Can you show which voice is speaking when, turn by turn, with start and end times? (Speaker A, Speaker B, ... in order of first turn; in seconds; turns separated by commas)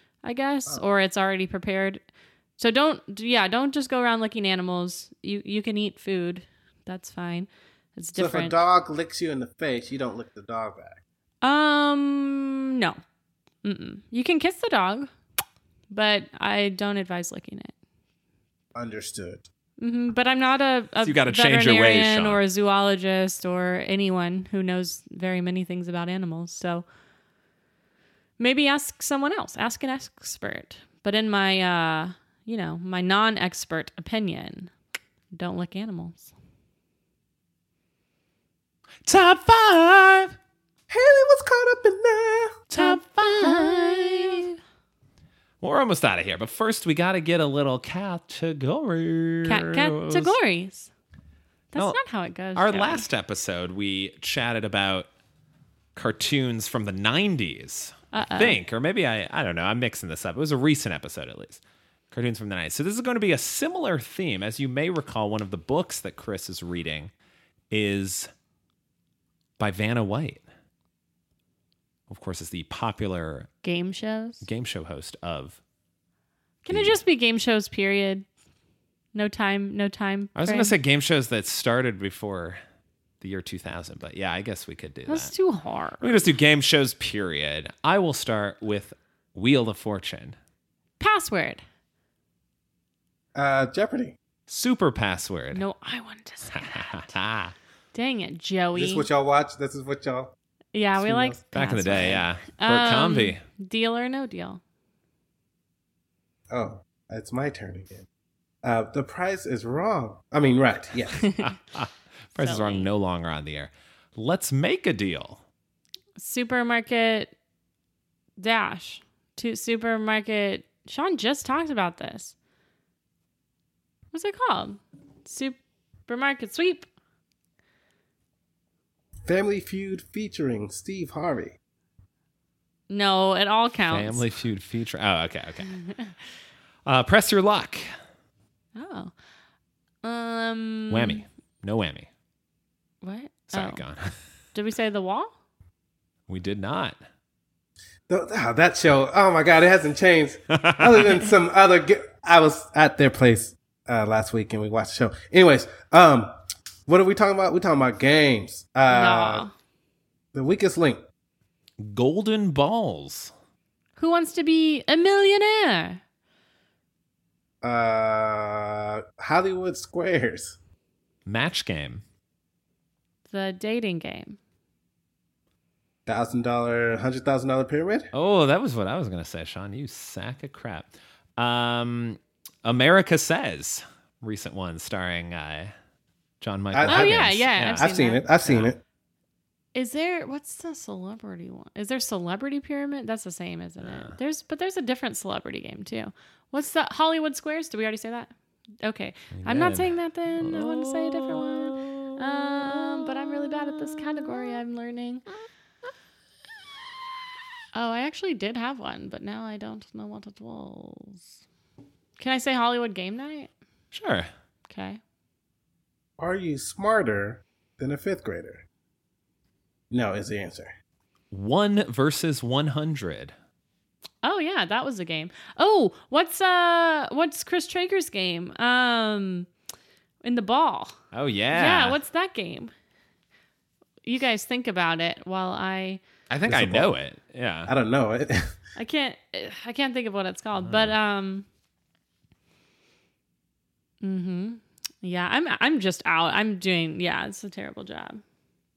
Speaker A: 0.2-2.0, Speaker A: 2.6-8.6, Speaker B: 8.2-11.0, Speaker A: 11.4-13.0, Speaker A: 13.6-15.1, Speaker A: 15.9-17.7, Speaker B: 18.8-19.5, Speaker A: 19.8-26.9, Speaker C: 21.0-22.4, Speaker A: 28.4-34.7, Speaker A: 35.3-36.3, Speaker C: 39.0-40.4, Speaker B: 40.9-42.6, Speaker C: 42.7-44.5, Speaker A: 42.8-44.5, Speaker C: 45.6-50.3, Speaker A: 49.5-50.9, Speaker A: 51.7-53.1, Speaker C: 52.5-55.1, Speaker C: 56.0-67.1, Speaker A: 58.1-58.6, Speaker C: 67.7-68.3, Speaker C: 69.6-70.4, Speaker C: 72.1-73.5, Speaker A: 73.6-74.5, Speaker C: 74.4-75.6, Speaker A: 76.6-78.3, Speaker C: 76.7-77.0, Speaker A: 79.2-80.7, Speaker C: 80.4-82.6, Speaker C: 83.2-85.3, Speaker A: 85.1-86.1, Speaker C: 86.0-90.4, Speaker A: 91.0-91.6, Speaker B: 93.3-94.2, Speaker C: 94.5-95.6, Speaker A: 95.5-97.1, Speaker C: 96.5-97.5, Speaker A: 97.9-99.1, Speaker B: 98.8-100.3, Speaker A: 100.7-104.6, Speaker B: 101.0-101.4, Speaker C: 101.5-103.4, Speaker B: 106.5-108.1, Speaker B: 108.6-111.3, Speaker A: 111.2-111.5, Speaker C: 111.4-115.4, Speaker A: 112.4-112.9, Speaker A: 116.2-117.3, Speaker A: 118.4-122.3, Speaker A: 124.1-126.9, Speaker B: 129.3-131.6, Speaker A: 132.9-134.2, Speaker C: 133.9-135.7, Speaker A: 135.8-136.1, Speaker C: 136.9-137.8, Speaker A: 138.8-139.1, Speaker A: 140.0-141.2, Speaker C: 140.9-142.1, Speaker A: 143.0-143.8, Speaker C: 143.5-144.2, Speaker A: 144.5-145.3, Speaker C: 146.3-147.0, Speaker B: 148.1-156.3, Speaker C: 150.6-151.1, Speaker B: 156.9-159.4, Speaker A: 158.9-159.5, Speaker B: 160.3-161.0, Speaker C: 161.8-163.3, Speaker A: 164.0-166.0, Speaker B: 167.6-170.6, Speaker C: 171.3-172.0, Speaker A: 173.3-174.4, Speaker B: 176.1-178.1, Speaker C: 178.1-185.7, Speaker C: 186.4-187.9, Speaker B: 186.7-188.8, Speaker A: 186.9-188.2, Speaker C: 188.4-188.7, Speaker A: 189.8-205.2, Speaker C: 193.8-194.2, Speaker C: 199.3-204.5, Speaker A: 207.8-211.2, Speaker A: 212.2-213.5, Speaker C: 213.9-214.3, Speaker A: 214.7-215.0, Speaker B: 216.2-218.6, Speaker B: 219.9-220.7, Speaker C: 221.3-223.3, Speaker A: 224.2-229.5, Speaker A: 230.2-231.0, Speaker C: 231.1-232.0, Speaker A: 231.5-232.7, Speaker A: 234.0-236.0, Speaker C: 236.3-237.7, Speaker B: 236.5-236.9, Speaker B: 237.7-238.6, Speaker A: 238.8-241.5, Speaker C: 240.6-240.9, Speaker A: 244.0-248.2